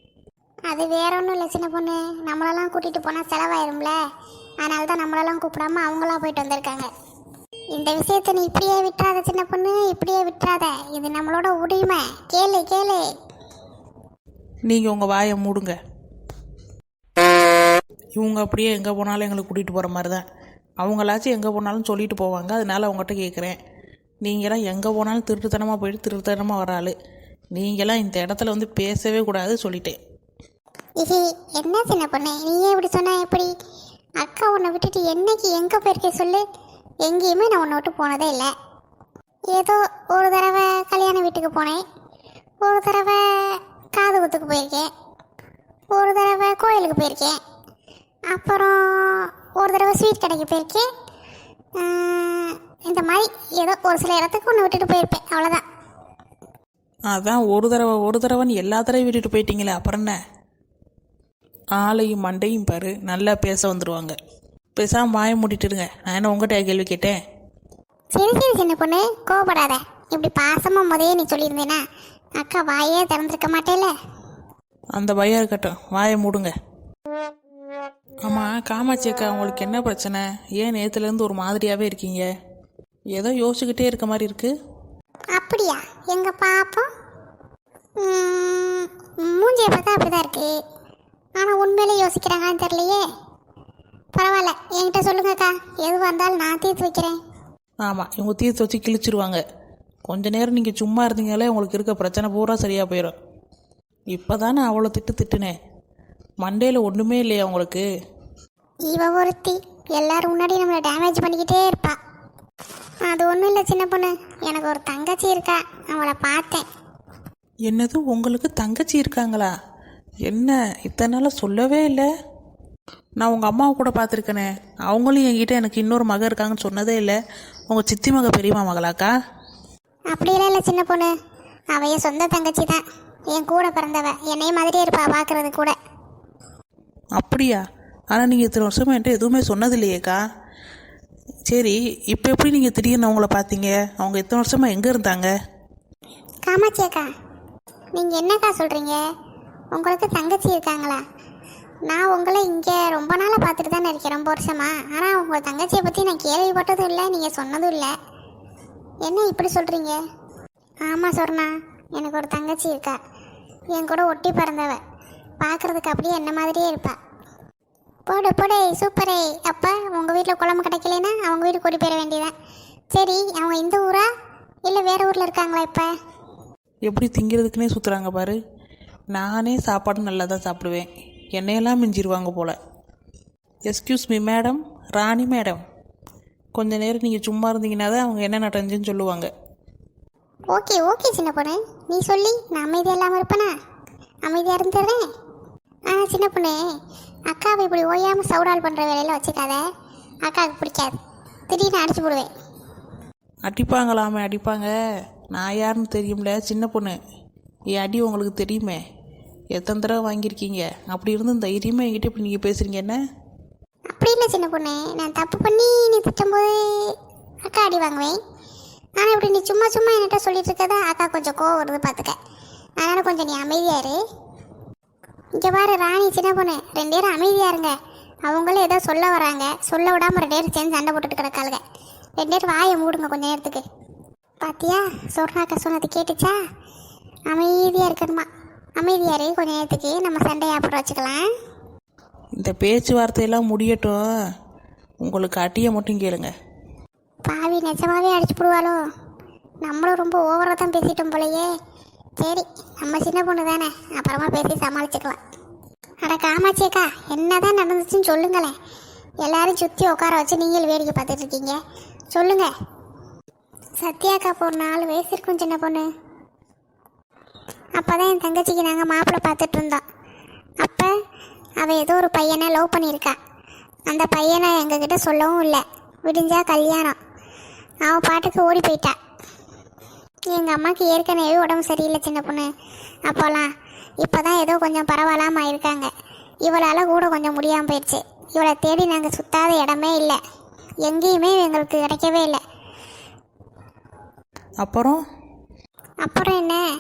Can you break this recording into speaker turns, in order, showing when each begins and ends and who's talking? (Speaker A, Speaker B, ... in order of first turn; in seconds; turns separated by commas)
Speaker A: 0.7-4.0, Speaker A: 4.6-6.9, Speaker A: 7.7-13.0, Speaker B: 14.7-15.8, Speaker B: 18.2-20.2, Speaker B: 20.8-23.6, Speaker B: 24.2-26.9, Speaker B: 27.5-30.0, Speaker A: 31.0-33.5, Speaker A: 34.2-36.4, Speaker A: 37.0-38.5, Speaker A: 39.5-41.8, Speaker A: 42.6-44.9, Speaker A: 45.9-47.4, Speaker A: 48.3-50.9, Speaker A: 51.8-55.6, Speaker B: 57.1-60.2, Speaker B: 61.8-64.2, Speaker B: 64.8-67.2, Speaker A: 68.1-71.8, Speaker A: 72.4-73.9, Speaker B: 75.0-76.5, Speaker B: 78.2-82.3, Speaker B: 83.1-84.5, Speaker A: 85.3-86.9, Speaker A: 88.0-90.5, Speaker A: 91.4-93.0, Speaker A: 94.2-97.2, Speaker B: 97.8-99.4, Speaker B: 100.1-103.2, Speaker B: 104.1-105.5, Speaker B: 106.4-107.8, Speaker A: 108.9-112.0, Speaker A: 113.1-116.7, Speaker B: 117.7-119.5, Speaker B: 120.3-122.1, Speaker B: 123.2-127.2, Speaker B: 127.7-129.1, Speaker A: 130.1-131.1, Speaker A: 131.7-132.8, Speaker A: 133.3-135.8, Speaker B: 137.2-140.2, Speaker B: 141.5-145.3, Speaker A: 146.5-147.1, Speaker A: 148.0-149.0, Speaker A: 149.7-151.0, Speaker A: 151.9-157.9, Speaker A: 159.1-160.0, Speaker A: 160.8-163.0, Speaker A: 163.7-164.8, Speaker A: 165.4-167.0, Speaker A: 168.1-172.3, Speaker A: 172.9-174.1, Speaker A: 174.7-175.9, Speaker B: 176.8-178.4, Speaker B: 179.1-182.6, Speaker B: 183.7-185.6, Speaker B: 186.6-189.3, Speaker A: 190.5-193.5, Speaker A: 194.2-195.1, Speaker A: 195.9-196.6, Speaker A: 197.3-199.6, Speaker A: 200.2-200.9, Speaker A: 201.5-202.3, Speaker B: 203.5-204.7, Speaker B: 205.3-207.0, Speaker B: 207.7-208.8, Speaker B: 209.6-213.0, Speaker A: 213.9-218.2, Speaker A: 219.0-222.2, Speaker A: 222.8-224.0, Speaker A: 225.4-227.7, Speaker A: 228.3-231.6, Speaker A: 232.2-233.6, Speaker A: 234.4-236.3, Speaker A: 237.3-238.3, Speaker A: 238.8-241.3, Speaker B: 242.4-244.0, Speaker B: 245.0-246.3, Speaker A: 247.2-248.8, Speaker A: 249.6-251.5, Speaker A: 252.2-255.2, Speaker A: 256.1-258.6, Speaker A: 259.2-261.6, Speaker A: 262.1-262.5, Speaker A: 263.8-265.9, Speaker A: 267.8-269.8, Speaker A: 270.6-270.9, Speaker A: 271.6-273.2, Speaker A: 273.9-277.0, Speaker A: 277.9-278.9, Speaker A: 280.3-282.5, Speaker A: 283.1-283.5, Speaker A: 284.0-285.9, Speaker A: 286.5-290.2, Speaker A: 290.9-292.4, Speaker B: 294.6-295.0, Speaker A: 296.0-296.6